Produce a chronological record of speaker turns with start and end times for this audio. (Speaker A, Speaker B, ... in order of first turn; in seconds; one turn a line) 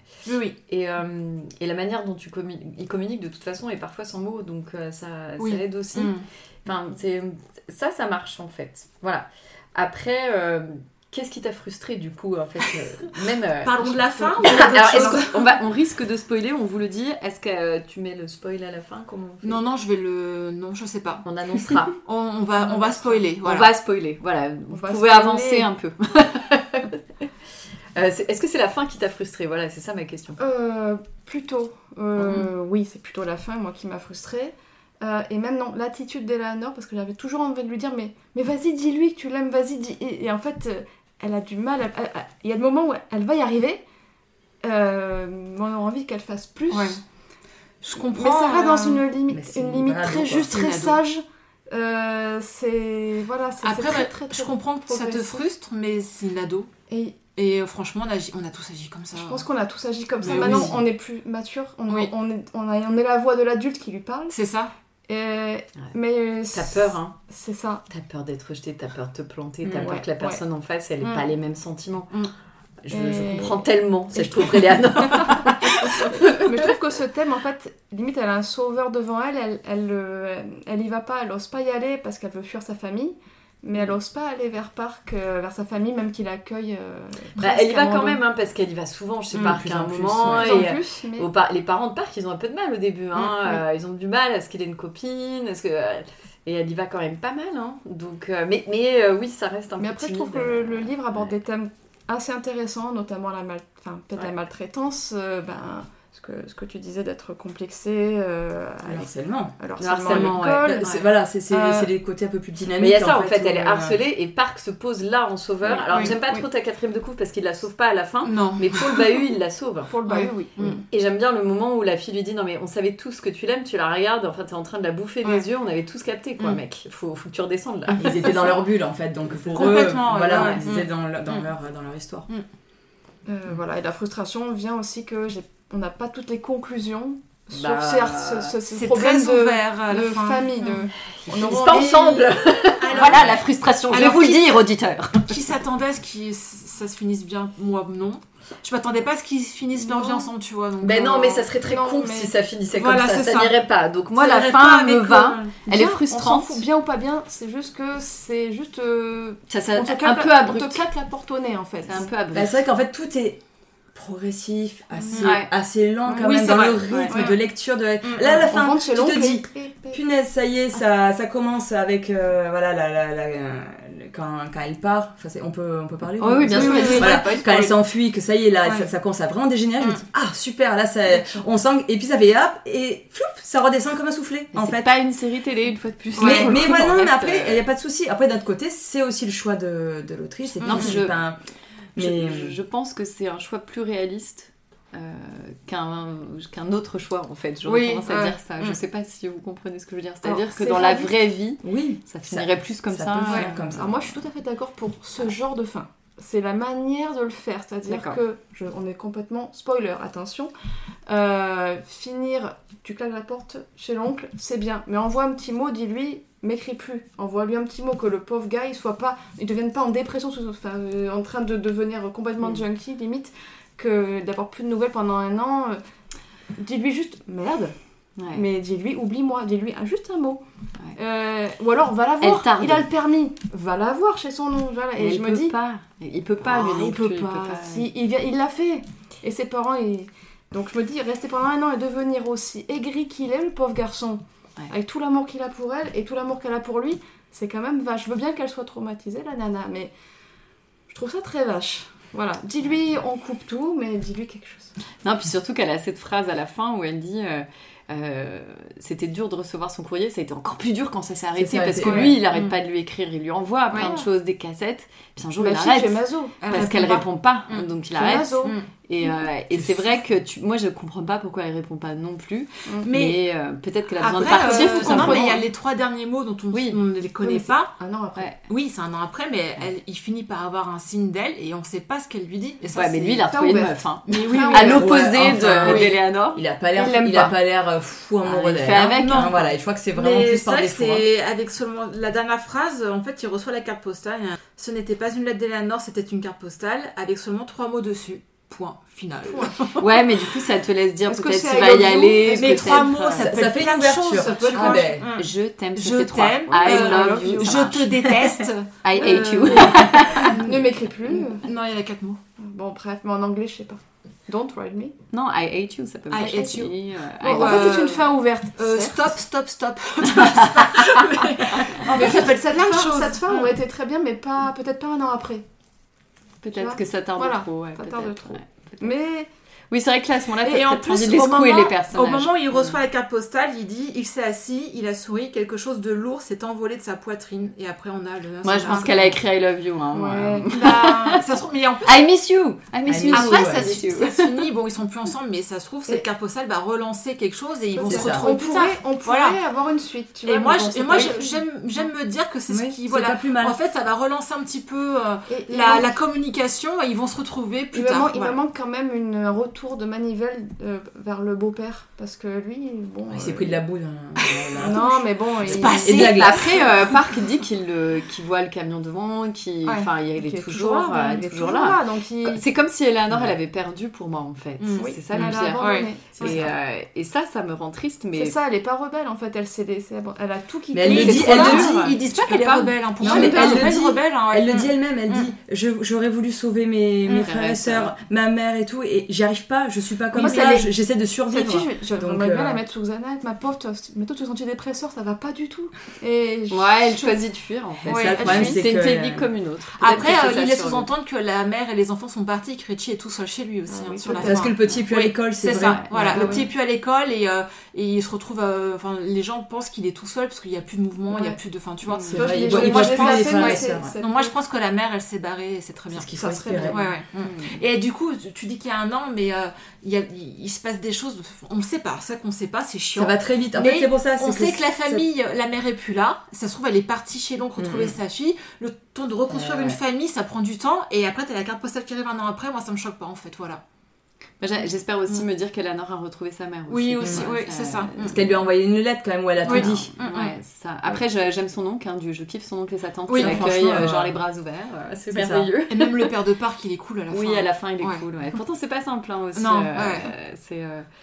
Speaker A: 0.3-0.6
Speaker B: 0.7-19.6
Speaker A: 5.4-6.2
Speaker A: 13.6-15.6
Speaker C: 14.2-15.2
Speaker A: 19.4-21.2
Speaker B: 21.2-22.0
Speaker A: 22.0-23.7
Speaker C: 22.6-23.2
Speaker B: 23.4-27.2
Speaker C: 24.7-25.7
Speaker B: 27.9-30.4
Speaker C: 30.4-43.8
Speaker B: 32.2-32.5
Speaker C: 44.6-47.0
Speaker A: 46.7-47.0
Speaker A: 47.8-49.0
Speaker C: 48.1-55.5
Speaker D: 49.3-50.5
Speaker A: 50.4-51.0
Speaker A: 53.6-56.7
Speaker C: 56.9-57.2
Speaker A: 57.4-59.4
Speaker C: 59.1-64.4
Speaker A: 60.2-60.8
Speaker D: 60.3-60.8
Speaker A: 64.3-64.7
Speaker C: 65.1-67.8
Speaker B: 66.5-67.2
Speaker B: 67.9-72.2
Speaker C: 69.8-70.4
Speaker B: 72.8-76.7
Speaker C: 72.9-88.2
Speaker B: 87.4-100.9
Speaker D: 89.4-90.7
Speaker C: 90.3-91.3
Speaker C: 99.8-110.9
Speaker D: 108.8-109.6
Speaker B: 109.8-111.0
Speaker D: 110.1-114.0
Speaker A: 111.5-111.9
Speaker B: 112.8-119.9
Speaker C: 115.6-116.5
Speaker A: 115.9-116.2
Speaker A: 118.2-119.1
Speaker C: 119.9-120.8
Speaker A: 120.0-120.8
Speaker B: 120.9-128.5
Speaker D: 128.0-132.3
Speaker A: 129.5-130.7
Speaker B: 130.3-130.9
Speaker C: 133.3-142.4
Speaker B: 137.6-138.6
Speaker A: 138.7-140.9
Speaker B: 141.2-145.4
Speaker A: 142.8-144.6
Speaker A: 145.3-151.5
Speaker C: 149.8-150.3
Speaker B: 150.8-156.6
Speaker C: 151.6-152.3
Speaker A: 152.7-153.6
Speaker A: 154.2-155.5
Speaker C: 155.7-162.1
Speaker B: 159.5-160.8
Speaker B: 161.8-162.6
Speaker D: 162.3-163.4
Speaker D: 163.9-184.9
Speaker B: 165.2-165.5
Speaker A: 166.2-167.3
Speaker B: 166.9-167.1
Speaker A: 168.0-168.4
Speaker C: 168.4-170.0
Speaker B: 176.2-177.7
Speaker A: 176.5-177.7
Speaker C: 176.6-177.2
Speaker A: 178.6-178.9
Speaker C: 181.2-181.4
Speaker B: 184.5-187.6
Speaker A: 186.2-186.6
Speaker D: 186.2-191.4
Speaker A: 190.6-191.0
Speaker B: 190.6-191.2
Speaker D: 191.9-192.6
Speaker B: 192.0-203.6
Speaker A: 197.6-198.8
Speaker C: 200.2-201.1
Speaker D: 201.6-204.1
Speaker A: 203.3-203.5
Speaker C: 203.6-210.5
Speaker B: 207.9-208.2
Speaker C: 211.1-225.8
Speaker C: 226.6-227.8
Speaker B: 228.2-228.4
Speaker C: 228.3-230.4
Speaker C: 230.9-235.5
Speaker B: 232.2-232.9
Speaker B: 235.0-237.9
Speaker C: 236.4-249.9
Speaker C: 250.9-254.7
Speaker B: 255.0-275.4
Speaker D: 261.4-262.1
Speaker A: 261.8-262.5
Speaker C: 263.7-264.1
Speaker C: 265.4-266.4
Speaker A: 266.4-267.7
Speaker C: 267.9-268.6
Speaker A: 272.8-273.2
Speaker A: 274.0-277.7
Speaker C: 274.3-275.4
Speaker B: 276.5-276.8
Speaker C: 277.2-278.3
Speaker A: 278.5-283.3
Speaker B: 282.7-287.4
Speaker C: 283.3-285.0
Speaker A: 284.1-286.0
Speaker D: 284.8-291.1
Speaker B: 288.2-289.4
Speaker A: 289.0-289.4
Speaker A: 289.9-299.9
Speaker C: 299.3-299.6
Speaker B: 299.8-303.3
Speaker C: 301.1-302.9
Speaker A: 302.2-312.2
Speaker D: 303.1-305.1
Speaker C: 304.1-304.9
Speaker B: 305.1-310.4
Speaker C: 306.6-307.7
Speaker C: 309.0-311.5
Speaker C: 312.4-314.9
Speaker B: 315.1-317.7
Speaker A: 316.1-316.7
Speaker C: 316.2-316.6
Speaker C: 317.2-319.1
Speaker A: 317.2-323.5
Speaker B: 320.2-320.5
Speaker C: 321.9-325.4
Speaker B: 326.4-328.9
Speaker C: 326.5-329.3
Speaker B: 329.7-332.8
Speaker A: 330.4-339.2
Speaker B: 338.4-341.2
Speaker C: 338.6-339.0
Speaker C: 339.9-340.8
Speaker A: 340.5-342.0
Speaker B: 341.8-344.5
Speaker D: 342.9-343.7
Speaker A: 343.1-349.4
Speaker C: 347.8-351.4
Speaker D: 347.9-348.3
Speaker A: 350.2-358.4
Speaker D: 352.5-353.6
Speaker C: 355.3-355.9
Speaker C: 357.7-363.6
Speaker D: 363.1-364.8
Speaker A: 364.4-367.0
Speaker C: 364.6-366.1
Speaker D: 365.4-366.6
Speaker B: 365.9-378.4
Speaker C: 370.2-372.4
Speaker D: 373.1-373.4
Speaker A: 374.6-374.9
Speaker C: 374.8-376.4
Speaker A: 375.6-376.4
Speaker D: 376.2-376.5
Speaker C: 378.1-381.7
Speaker D: 380.7-381.9
Speaker A: 380.9-385.3
Speaker B: 380.9-383.8
Speaker D: 383.0-392.6
Speaker B: 387.1-387.9
Speaker C: 390.1-390.7
Speaker A: 390.1-390.6
Speaker C: 391.3-397.1
Speaker B: 396.5-400.9
Speaker D: 397.9-399.3
Speaker A: 397.9-398.5
Speaker A: 399.8-416.1
Speaker C: 403.7-404.5
Speaker D: 404.2-406.4
Speaker B: 405.5-406.1
Speaker C: 406.1-406.4
Speaker C: 411.1-411.4
Speaker B: 411.9-412.3
Speaker D: 412.1-413.9
Speaker C: 412.1-414.3
Speaker D: 415.9-416.9
Speaker C: 416.1-416.9
Speaker A: 416.7-433.6
Speaker B: 417.2-417.6
Speaker D: 422.9-425.1
Speaker D: 427.6-427.9
Speaker D: 429.3-429.8
Speaker B: 434.4-438.2
Speaker A: 436.7-438.2
Speaker D: 437.0-437.3
Speaker D: 438.0-439.9
Speaker B: 439.4-446.1
Speaker A: 439.4-440.3
Speaker A: 443.1-443.5
Speaker D: 443.2-444.2
Speaker D: 445.1-445.5
Speaker A: 445.7-448.1
Speaker B: 447.1-450.9
Speaker A: 449.4-450.1